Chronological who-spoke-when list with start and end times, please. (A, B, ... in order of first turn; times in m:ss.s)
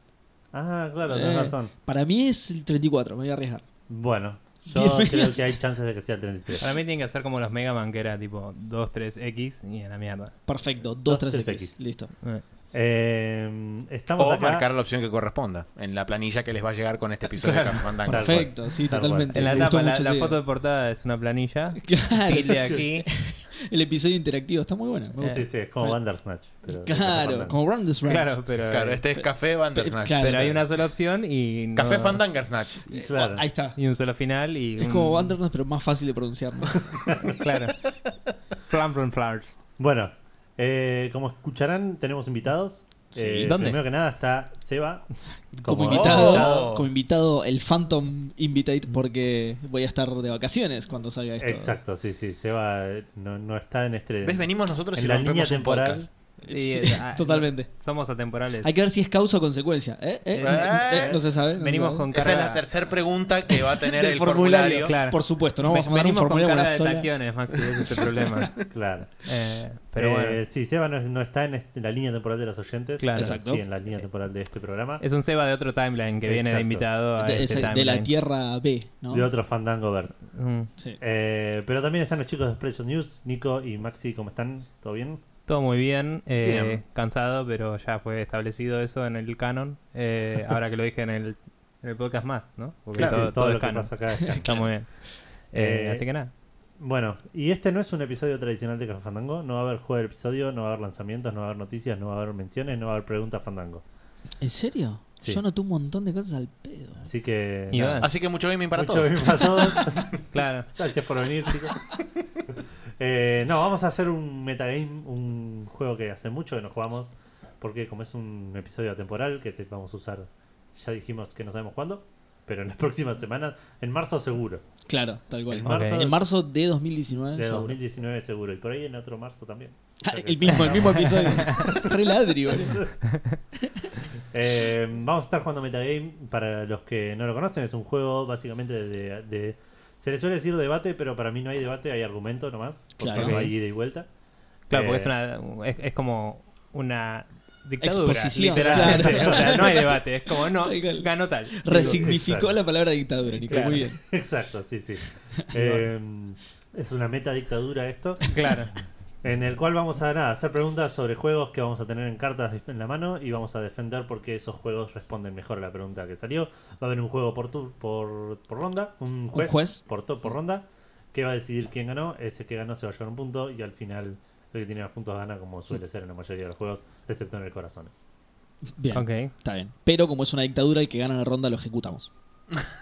0:00.5-0:01.7 A
0:01.1-0:03.6 B
0:03.9-0:06.7 A
0:04.7-0:05.5 B
0:06.6-0:10.4 C
0:10.5-0:12.1 B
0:11.1-0:11.8 A
0:12.7-0:14.7 A
0:14.2-0:18.5 D
0:17.4-0:17.9 C
0:18.0-0:20.4 B
0:18.1-0:19.7 A
0:19.3-0:23.1 C
0:21.8-0:26.0 B
0:25.3-0:27.6 A
0:26.7-0:28.4 B
0:28.1-0:29.0 C
0:28.7-0:30.6 D
0:29.2-0:30.5 B
0:30.2-0:32.2 C
0:31.8-0:32.9 D
0:32.9-0:33.5 A
0:33.1-0:33.8 B
0:33.8-0:35.4 C
0:34.8-0:36.8 B
0:37.0-0:37.4 A
0:37.2-0:37.9 C
0:38.7-0:39.6 C
0:39.8-0:45.0 A
0:43.1-0:43.5 B
0:43.4-0:43.8 C
0:45.6-0:51.8 B
0:45.6-0:46.7 A
0:45.9-0:46.9 D
0:51.4-0:56.1 A
0:54.2-0:56.1 D
0:56.4-0:57.7 B
0:56.5-0:58.7 C
0:58.6-1:02.1 B
1:00.3-1:02.7 C
1:00.4-1:01.2 D
1:02.1-1:05.0 D
1:03.8-1:07.1 B
1:04.8-1:10.4 C
1:08.7-1:09.1 A
1:10.0-1:15.0 A
1:13.0-1:13.4 C
1:13.2-1:13.6 B
1:15.0-1:18.1 C
1:16.2-1:16.9 A
1:17.2-1:19.3 B
1:19.1-1:20.2 A
1:20.3-1:20.7 C
1:21.0-1:25.2 A
1:25.5-1:36.3 C
1:26.4-1:26.8 D
1:33.0-1:34.5 A
1:33.0-1:33.3 D
1:35.6-1:36.0 A
1:36.8-1:43.8 A
1:44.4-1:47.1 B
1:47.0-1:48.1 A
1:47.7-1:48.1 C
1:48.0-1:49.8 D
1:48.7-1:50.2 A
1:50.3-1:50.7 C
1:50.8-1:51.9 A
1:52.6-2:04.6 A
2:04.9-2:07.8 B
2:05.5-2:06.2 A
2:05.6-2:06.1 C
2:07.4-2:12.9 A
2:10.0-2:12.9 B
2:11.0-2:11.6 C
2:13.1-2:13.4 C
2:14.3-2:24.1 A
2:23.0-2:23.5 B
2:23.1-2:23.5 C
2:24.7-2:32.1 C
2:24.7-2:25.1 A
2:27.8-2:34.0 B
2:28.6-2:29.8 A
2:31.8-2:32.6 A
2:33.5-2:33.9 C
2:34.0-2:38.6 A
2:38.3-2:38.8 C
2:39.2-2:58.0 A
2:49.3-2:49.8 B
2:58.8-3:02.1 B
2:58.9-2:59.3 C